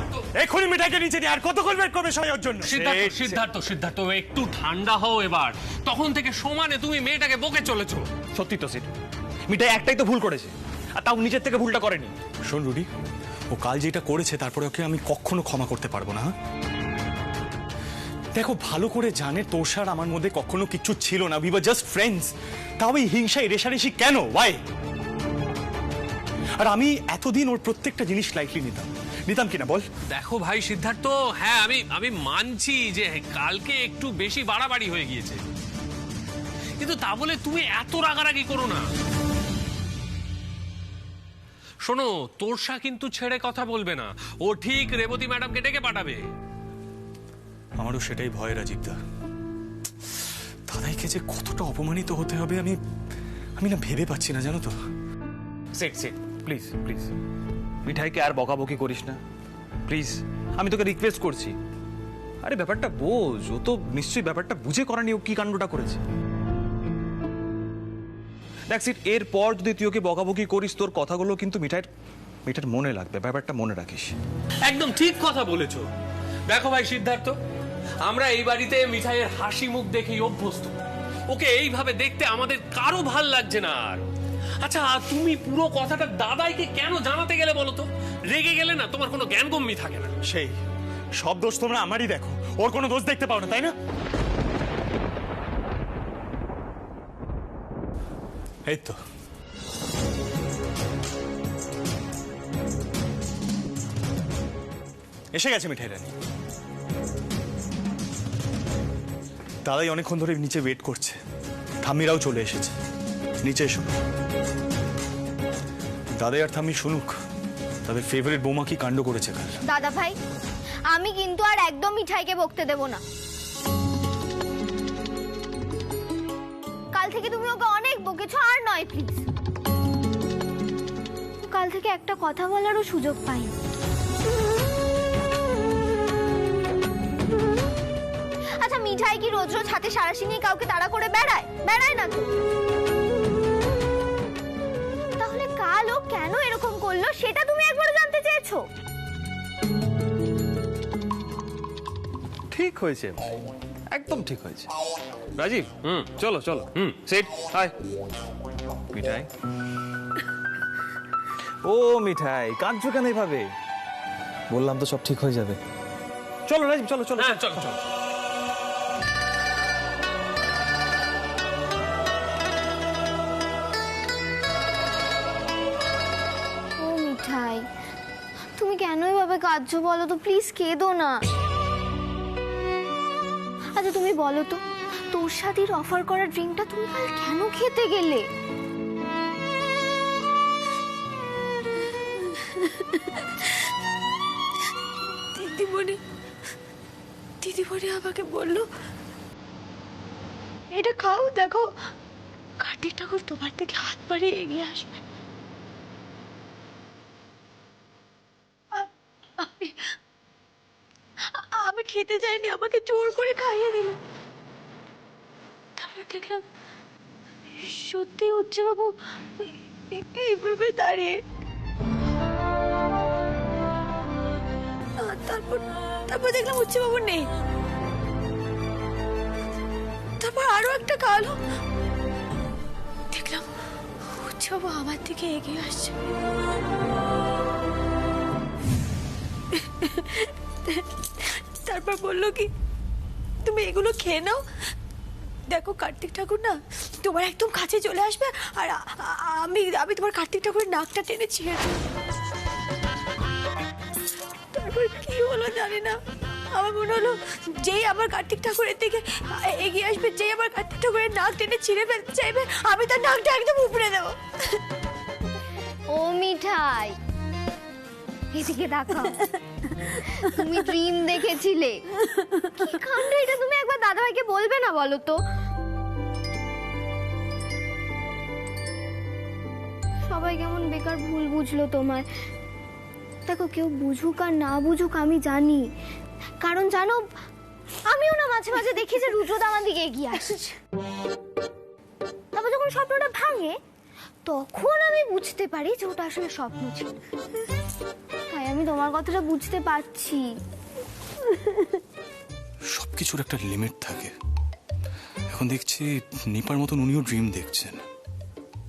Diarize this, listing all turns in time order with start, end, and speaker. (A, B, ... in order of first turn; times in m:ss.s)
0:00.4-0:03.4 A
0:02.6-0:08.1 B
0:08.4-0:08.9 C
0:09.5-0:10.5 C
0:11.0-0:12.1 C
0:12.5-0:12.9 A
0:13.5-0:16.3 A
0:18.3-0:24.6 A
0:26.6-0:29.8 A
0:30.1-0:35.4 B
0:36.8-0:38.9 B
0:41.8-0:46.2 B
0:47.8-0:49.0 A
0:50.7-0:52.8 A
0:53.6-0:54.7 A
0:55.8-0:57.1 C
0:57.9-0:59.2 C
0:59.9-1:01.5 C
1:02.4-1:06.0 C
1:08.7-1:11.9 C
1:12.5-1:14.1 C
1:14.7-1:15.9 B
1:16.5-1:17.4 B
1:18.0-1:20.8 B
1:21.3-1:24.0 B
1:24.6-1:30.1 B
1:30.3-1:30.6 A
1:31.2-1:33.7 A
1:38.7-1:39.0 A
1:45.3-1:46.1 A
1:49.6-1:51.2 A
1:51.8-1:52.7 A
1:53.4-1:54.0 A
1:56.2-1:57.1 A
1:57.9-1:59.6 A
1:59.7-2:00.2 D
2:00.9-2:03.0 D
2:06.9-2:09.2 D
2:11.4-2:13.5 D
2:18.6-2:22.3 D
2:25.2-2:28.6 D
2:32.5-2:33.3 C
2:33.9-2:34.7 C
2:35.4-2:37.7 C
2:38.9-2:39.3 C
2:41.6-2:43.5 C
2:44.5-2:45.6 C
2:46.5-2:47.8 C
2:47.2-2:47.8 B
2:56.8-2:57.6 D
2:58.6-3:01.2 D
3:03.8-3:04.6 D
3:05.1-3:08.2 D
3:12.5-3:13.0 E
3:15.4-3:16.0 E
3:17.4-3:18.7 E
3:20.7-3:21.7 E
3:22.6-3:24.9 E
3:29.4-3:29.8 E
3:31.4-3:34.0 E
3:35.8-3:36.4 E
3:37.6-3:41.2 E
3:45.0-3:47.3 E
3:50.2-3:51.4 E
3:53.1-3:53.5 E
3:54.1-3:56.0 E
3:59.8-4:00.8 E
4:01.7-4:02.5 E
4:03.4-4:04.4 E
4:05.5-4:11.7 E
4:14.5-4:16.0 E
4:16.5-4:24.2 E
4:25.9-4:27.0 D
4:28.3-4:29.3 D
4:30.2-4:31.8 D
4:32.6-4:35.2 D
4:40.1-4:42.1 D
4:43.3-4:45.7 D
4:46.4-4:47.0 D
4:47.9-4:50.5 D
4:52.3-4:53.6 D
4:54.2-4:57.0 D
4:58.3-5:00.2 D
5:02.7-5:04.1 A
5:05.3-5:07.8 A